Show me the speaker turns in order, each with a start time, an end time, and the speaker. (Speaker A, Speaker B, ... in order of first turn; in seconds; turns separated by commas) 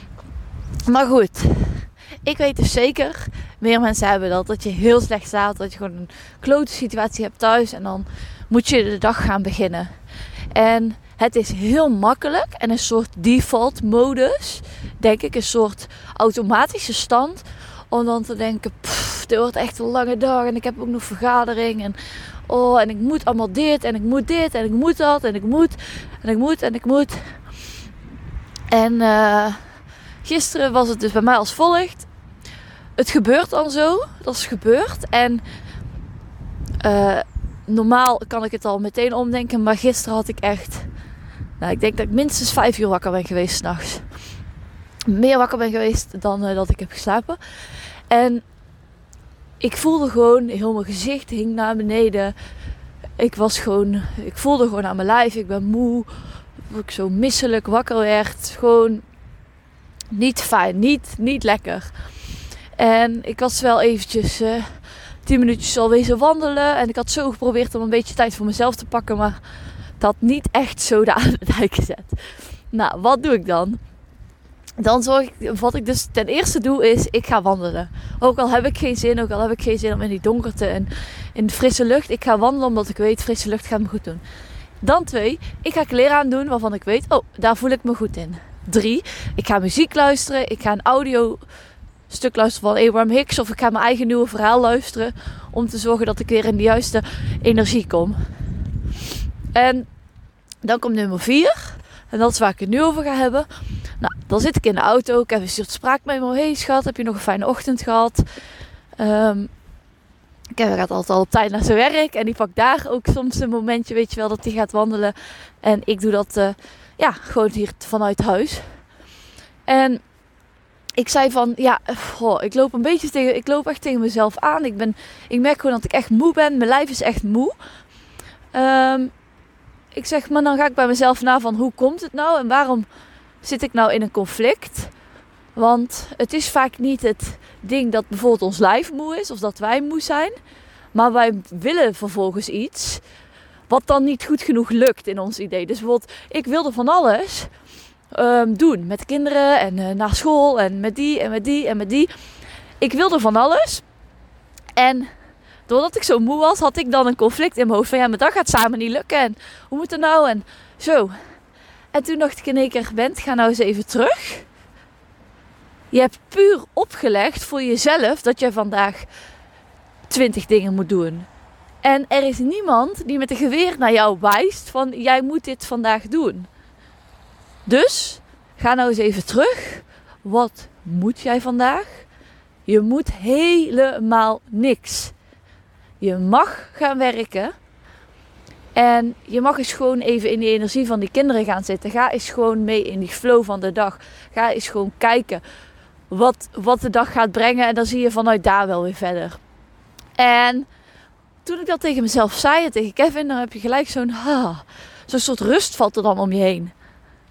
Speaker A: 0.9-9.9, Speaker A: 10.5-22.0, Speaker A: 22.5-27.2, Speaker A: 28.7-29.6, Speaker A: 30.2-32.1, Speaker A: 33.0-35.4, Speaker A: 36.8-40.9, Speaker A: 41.6-44.0, Speaker A: 45.1-47.4, Speaker A: 48.1-48.4, Speaker A: 49.6-52.3, Speaker A: 53.2-56.1, Speaker A: 56.6-59.0, Speaker A: 60.1-61.9, Speaker A: 62.8-64.7, Speaker A: 65.2-69.4, Speaker A: 70.0-73.8, Speaker A: 74.8-84.2, Speaker A: 84.8-91.4, Speaker A: 92.1-98.2, Speaker A: 99.5-99.9, Speaker A: 100.6-103.5, Speaker A: 104.0-108.2, Speaker A: 109.0-109.5, Speaker A: 110.5-118.7, Speaker A: 119.7-120.0, Speaker A: 121.0-127.6, Speaker A: 128.5-129.1, Speaker A: 129.9-132.9, Speaker A: 133.4-134.9, Speaker A: 135.6-140.3, Speaker A: 140.9-143.0, Speaker A: 143.7-147.5, Speaker A: 148.1-152.1, Speaker A: 152.8-153.8, Speaker A: 154.8-155.1, Speaker A: 155.7-161.1, Speaker A: 161.9-164.5, Speaker A: 165.9-169.1, Speaker A: 170.1-171.3, Speaker A: 171.8-176.5, Speaker A: 177.7-182.1, Speaker A: 182.7-185.1, Speaker A: 186.0-187.5, Speaker A: 188.8-195.4, Speaker A: 196.1-199.4, Speaker A: 200.2-200.7, Speaker A: 201.4-206.7